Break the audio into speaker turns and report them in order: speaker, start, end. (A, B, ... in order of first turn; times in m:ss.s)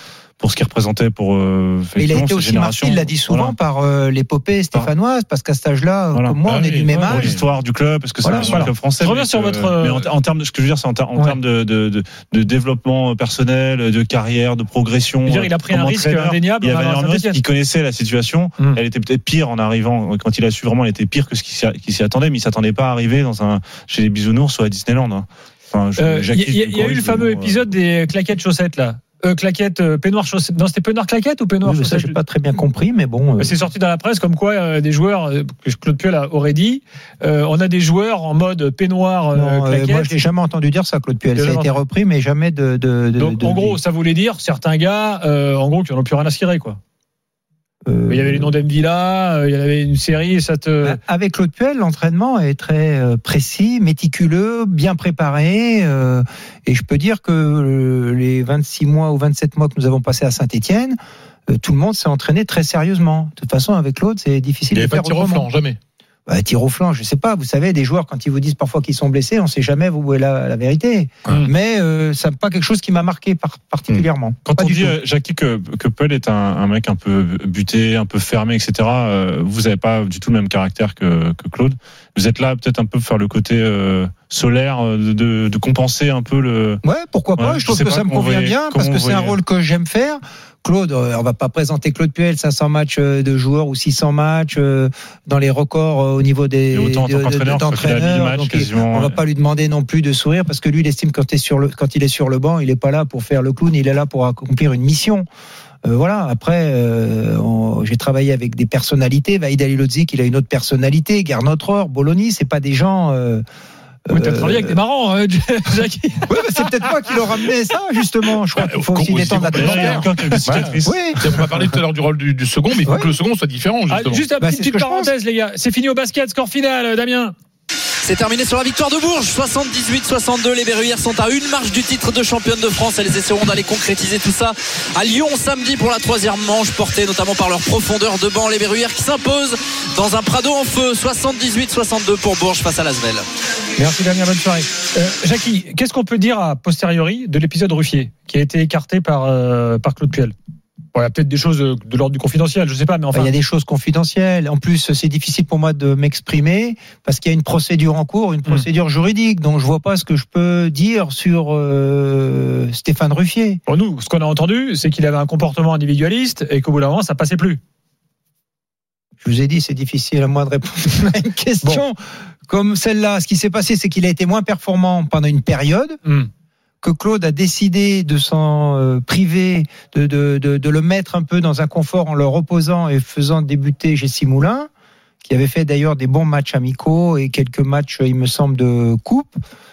0:00.4-0:03.5 A
0:02.0-0:07.3 B
0:06.1-0:27.6 A
0:06.4-0:07.4 C
0:08.2-0:08.6 B
0:08.5-0:10.1 D
0:15.2-0:17.4 D
0:26.0-0:32.2 D
0:31.6-0:33.6 B
0:33.4-0:40.1 D
0:39.3-0:43.8 B
0:41.4-0:41.7 D
0:43.2-0:46.8 D
0:47.8-0:48.5 B
0:48.1-0:51.0 D
0:50.8-1:01.0 B
1:01.5-1:05.4 B
1:04.7-1:05.8 C
1:06.2-1:15.0 B
1:14.4-1:26.8 A
1:26.8-1:45.2 B
1:27.4-1:29.4 A
1:36.7-1:39.2 A
1:45.8-1:53.4 B
1:54.1-1:54.8 B
1:54.1-1:56.9 D
1:56.3-2:00.1 B
1:58.6-2:04.3 C
1:59.5-2:01.0 A
2:00.8-2:01.2 B
2:02.8-2:03.1 B
2:03.9-2:07.3 D
2:04.4-2:05.1 B
2:08.0-2:23.2 E
2:23.8-2:30.3 D
2:30.9-2:33.3 D
2:33.1-2:43.6 B
2:43.7-2:47.6 D
2:49.2-2:56.0 B
2:56.8-3:04.7 B
3:05.2-3:09.4 B